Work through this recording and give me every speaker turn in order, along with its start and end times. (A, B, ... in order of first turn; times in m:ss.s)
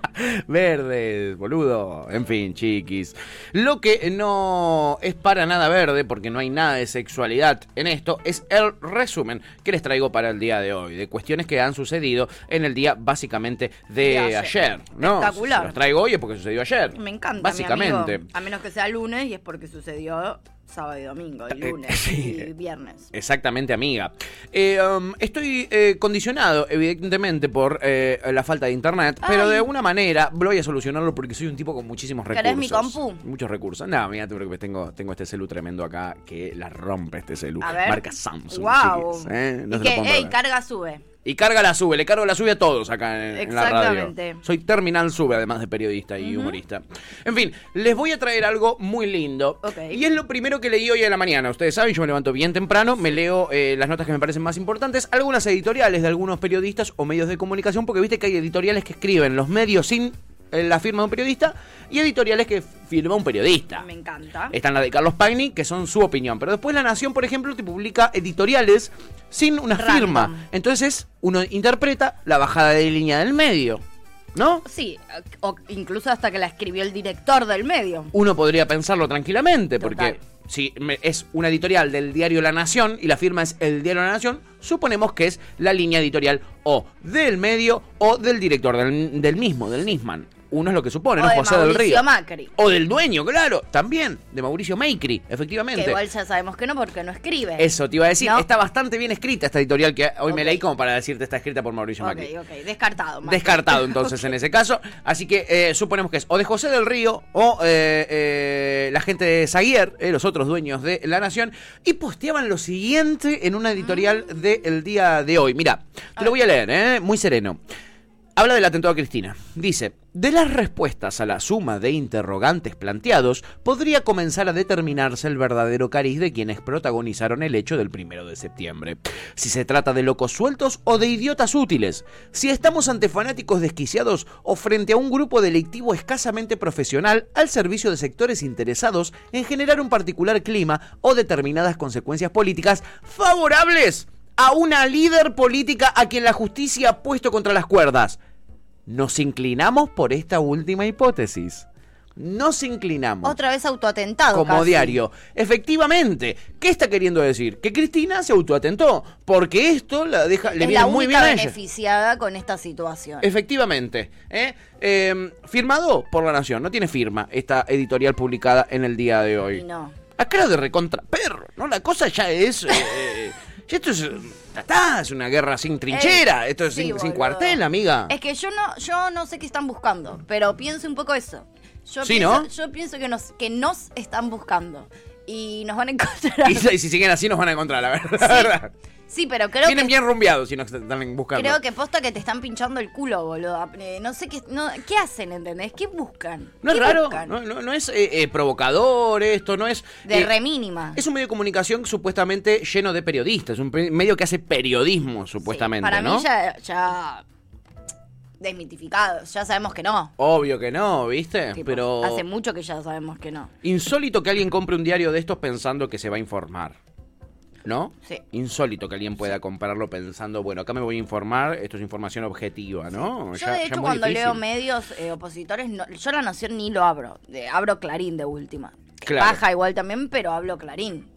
0:00.2-0:18.2 A
0:14.0-0:15.8 B
0:16.9-0:23.1 B
0:21.6-0:22.5 A
0:23.1-0:40.3 A
0:29.2-0:29.6 B
0:32.3-0:33.2 B
0:37.6-0:41.0 B
0:41.2-1:03.8 A
0:43.3-0:44.4 B
0:46.2-0:46.6 B
0:49.6-0:50.0 B
1:03.8-1:04.5 B
1:04.5-1:13.8 A
1:09.8-1:10.4 B
1:14.3-1:14.6 A
1:14.6-1:18.1 B
1:18.1-1:32.0 A
1:19.8-1:20.2 B
1:31.2-1:32.5 B
1:32.6-1:36.0 A
1:35.7-1:38.4 B
1:37.6-1:42.3 A
1:40.3-1:40.6 B
1:42.0-1:44.3 B
1:43.2-1:57.6 A
1:58.4-2:28.2 A
2:28.9-2:31.6 A
2:32.2-2:33.4 A
2:33.2-2:35.0 B
2:34.3-2:41.5 A
2:40.6-2:43.3 B
2:43.2-2:49.6 A
2:49.5-2:50.0 B
2:50.2-2:58.1 A
2:55.9-3:06.7 B
3:02.0-3:02.5 A
3:06.4-3:08.7 A
3:08.2-3:08.6 B
3:09.1-3:09.9 B
3:09.6-3:11.6 A
3:11.3-3:17.3 B
3:16.6-3:20.3 A
3:20.0-3:21.0 B
3:20.9-3:26.2 A
3:25.4-3:27.2 B
3:28.4-3:30.1 B
3:30.2-3:32.2 A
3:31.5-3:33.5 B
3:33.6-3:36.8 A
3:37.6-3:44.4 A
3:43.3-3:51.1 B
3:49.0-3:49.4 A